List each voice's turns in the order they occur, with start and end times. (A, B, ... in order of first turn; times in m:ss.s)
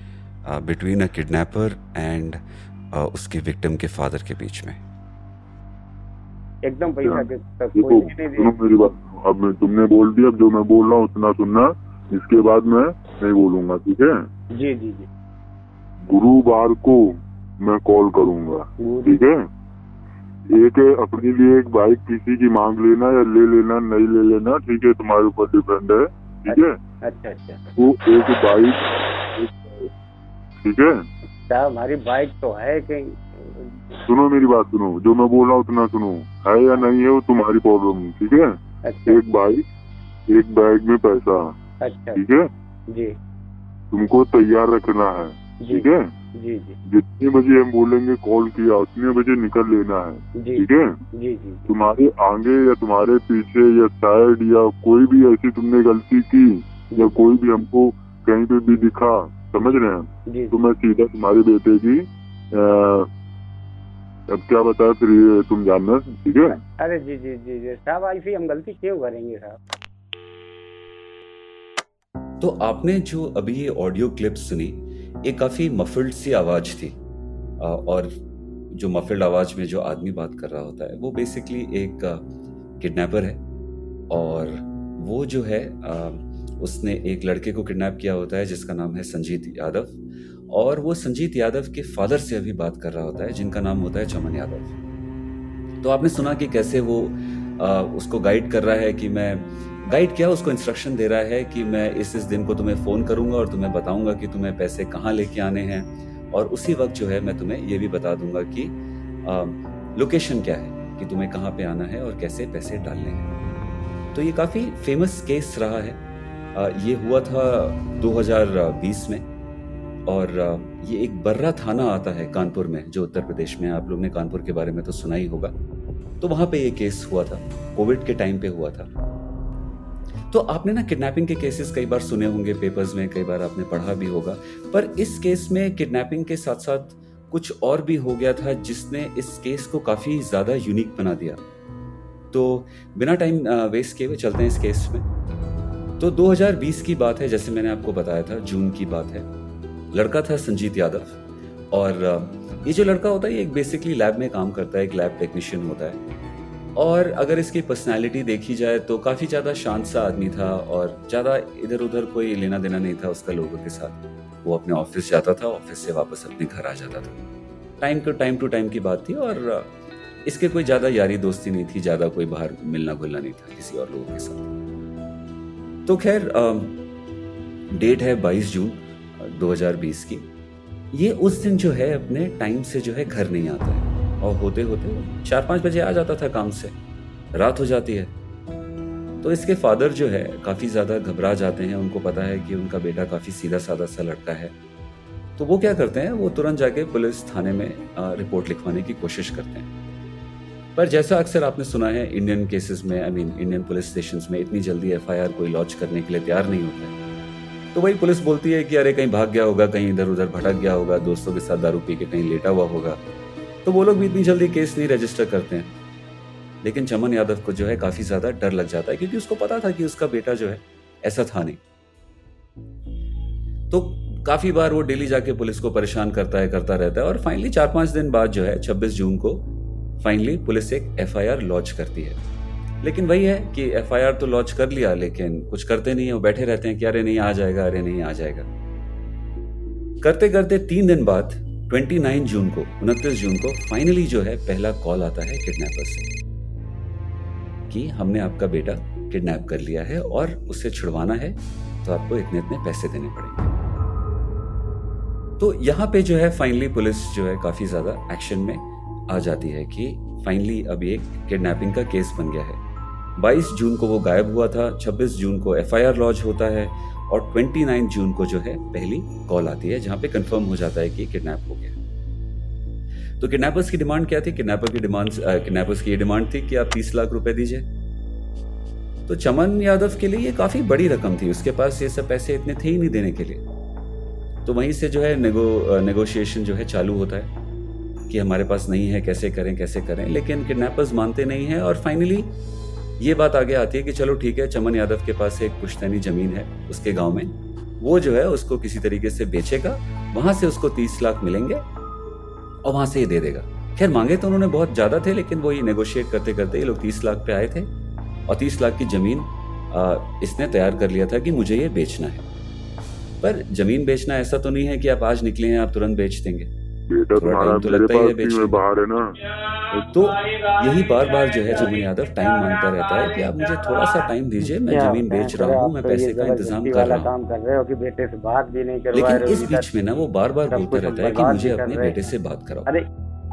0:00.4-0:02.4 A
0:02.9-0:04.8 A
0:06.6-0:08.5 B
0:07.0-0:14.2 C
0:14.5-0:15.1 B
0:16.1-0:17.1 C
0:17.6-0:19.4 C
0:18.8-0:19.2 B
0:20.5-0:26.8 C
0:26.5-0:27.6 B
0:27.8-0:29.9 C
0:30.6-0:31.0 C
0:31.5-0:34.0 B
0:34.0-0:39.6 C
0:38.8-0:39.2 B
0:40.3-0:41.5 C
0:41.8-0:42.2 B
0:42.1-0:42.5 C
0:43.9-0:46.1 C
0:45.6-0:46.8 B
0:46.8-0:51.0 C
0:50.4-0:51.7 B
0:51.7-1:03.1 C
1:00.3-1:00.5 B
1:04.3-1:06.6 C
1:06.8-1:09.6 B
1:12.4-1:17.0 A
1:17.6-1:18.1 A
1:18.7-1:22.2 A
1:22.8-1:23.4 A
1:24.1-1:30.0 A
1:30.5-1:34.7 A
1:35.8-1:53.3 A
1:54.1-1:56.0 A
1:56.5-1:59.2 A
2:00.1-2:05.5 A
2:06.2-2:08.9 A
2:10.3-2:21.4 A
2:22.3-2:25.0 A
2:26.0-2:29.3 A
2:29.9-2:31.2 A
2:31.7-2:36.0 A
2:36.8-2:47.2 A
2:47.8-2:49.7 A
2:50.2-2:54.5 A
2:55.8-2:56.8 A
2:57.7-3:00.3 A
3:00.9-3:06.7 A
3:07.3-3:08.1 A
3:09.2-3:14.5 A
3:15.4-3:19.7 A
3:20.8-3:26.9 A
3:27.7-3:33.0 A
3:33.6-3:35.7 A
3:36.6-3:41.6 A
3:43.7-3:49.5 A
3:50.0-3:52.2 A
3:52.8-3:58.5 A
4:00.0-4:06.0 A
4:07.7-4:13.5 A
4:15.4-4:22.6 A
4:23.2-4:31.8 A
4:33.2-4:37.6 A
4:39.1-4:43.4 A
4:44.4-4:47.3 A
4:48.1-4:52.3 A
4:53.0-5:01.6 A
5:02.6-5:07.7 A
5:08.3-5:12.2 A
5:13.2-5:16.5 A
5:16.9-5:19.2 C
5:17.2-5:18.6 A
5:19.9-5:27.1 A
5:24.7-5:29.7 B
5:28.9-5:32.7 A
5:30.5-5:32.1 B